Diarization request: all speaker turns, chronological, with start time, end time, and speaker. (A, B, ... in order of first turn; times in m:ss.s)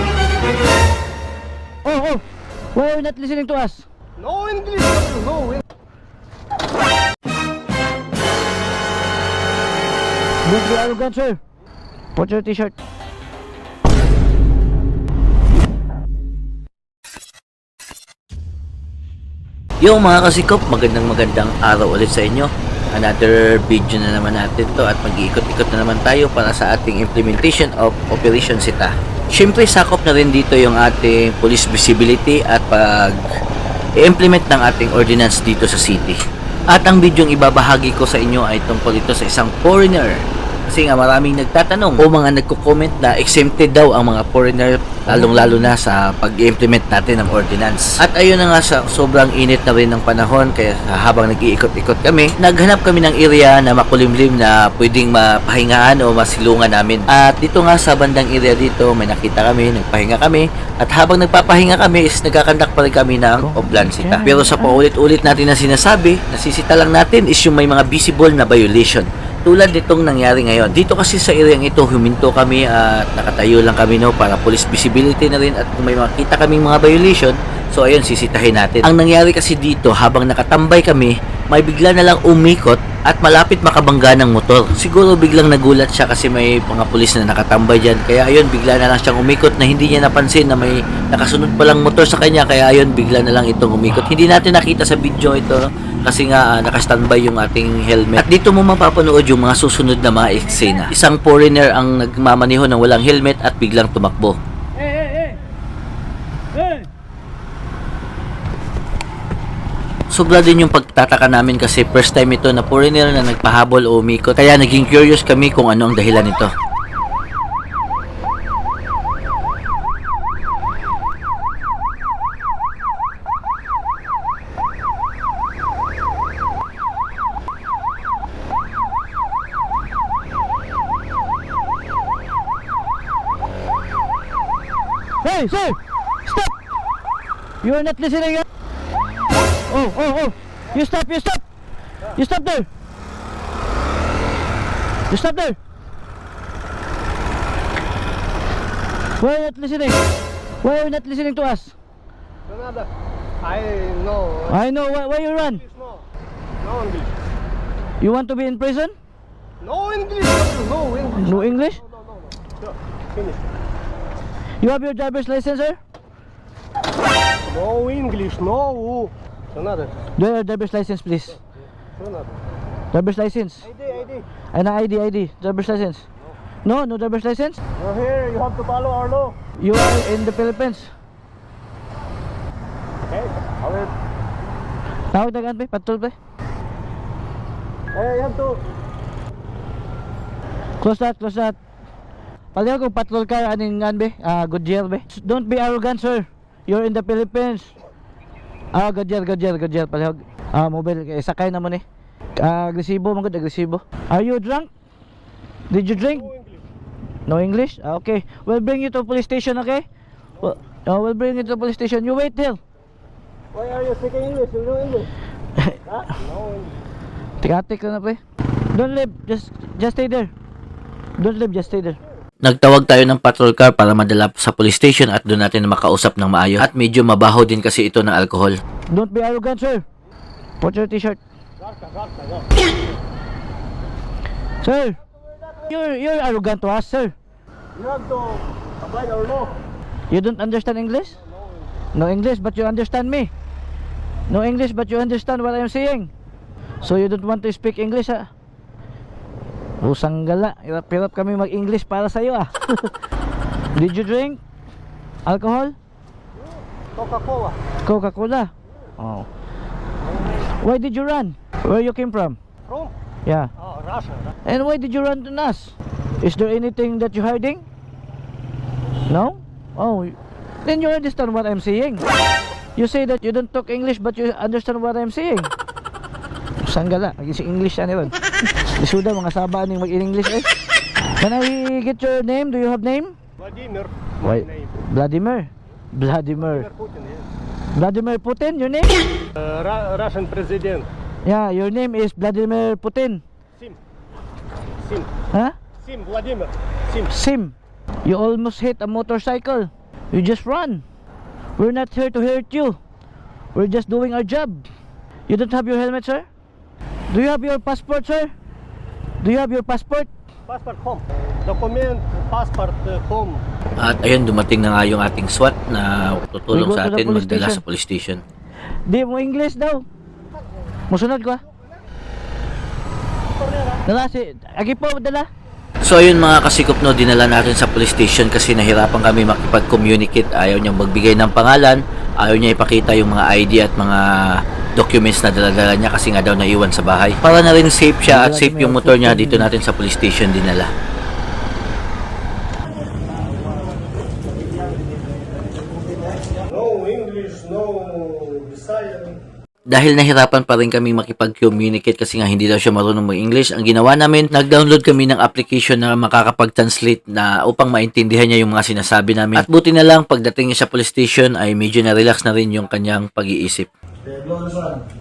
0:01.8-0:02.2 A
0:02.7-0:03.9 A
0:04.2-0:05.6 B
0:10.4-0:11.4 A
0:12.1-0:12.7 A
0:19.8-0:33.2 C
0:34.0-1:44.4 C
0:45.1-0:45.6 A
1:03.4-1:04.8 A
1:50.1-1:56.5 C
2:15.2-2:16.5 A
2:17.6-2:18.4 A
2:19.6-2:21.4 A
2:22.1-2:22.7 A
2:25.1-2:25.6 A
2:29.2-2:30.0 A
2:30.6-2:31.8 A
2:32.5-2:32.9 B
2:33.4-2:34.6 B
2:34.4-2:35.6 A
2:35.4-2:36.0 B
2:36.6-2:37.2 B
2:38.0-2:38.9 A
2:39.6-2:43.5 B
2:41.2-2:41.8 A
2:44.6-2:45.8 A
2:47.4-2:49.9 B
2:50.2-2:51.4 A
2:52.0-2:52.4 B
2:52.9-2:53.7 A
2:53.7-2:54.2 B
2:54.5-2:56.0 A
2:56.6-2:57.6 A
2:57.8-2:59.4 B
2:59.6-3:00.9 A
3:03.1-3:03.9 B
3:05.1-3:06.1 A
3:07.9-3:08.6 B
3:10.8-3:11.6 A
3:12.5-3:17.7 A
3:18.7-3:21.8 A
3:22.4-3:24.7 A
3:25.7-3:26.3 A
3:26.1-3:26.6 B
3:27.3-3:29.8 A
3:30.4-3:32.6 A
3:33.5-3:35.1 B
3:35.6-3:35.9 A
3:36.1-3:36.8 B
3:37.4-3:38.2 A
3:38.7-3:40.3 A
3:41.2-3:42.0 A
3:42.4-3:48.6 C
3:48.9-3:49.8 A
3:50.6-3:51.2 A
3:51.6-3:52.5 B
3:54.6-3:57.2 A
3:57.8-3:59.5 B
4:00.1-4:01.2 A
4:01.9-4:03.3 A
4:04.3-4:06.1 A
4:06.8-4:08.3 A
4:09.8-4:12.9 A
4:13.8-4:14.4 A
4:15.2-4:15.8 A
4:16.9-4:17.6 B
4:17.8-4:19.3 A
4:20.6-4:22.4 A
4:22.6-4:22.9 B
4:23.2-4:23.5 A
4:23.6-4:24.3 B
4:24.4-4:27.6 A
4:29.1-4:32.0 A
4:32.8-4:35.5 A
4:36.6-4:40.5 A
4:41.2-4:43.1 A
4:43.4-4:44.7 B
4:44.2-4:46.7 A
4:46.4-4:47.3 B
4:47.8-4:48.9 A
4:49.4-4:50.9 B
4:51.2-4:53.2 A
4:54.8-4:55.1 B
4:55.8-4:57.1 B
4:57.1-5:00.8 A
5:01.6-5:02.8 A
5:03.5-5:04.7 A
5:05.3-5:06.3 A
5:07.1-5:08.3 A
5:09.2-5:10.1 A
5:10.5-5:13.4 B
5:13.8-5:18.2 C
5:16.5-5:17.6 A
5:18.9-5:19.8 A
5:20.9-5:21.4 A
5:23.5-5:23.8 B
5:23.8-5:25.3 A
5:25.8-5:40.7 C
5:38.1-5:39.5 A
5:46.4-5:49.2 B
5:49.7-6:03.7 C
6:04.3-6:04.8 B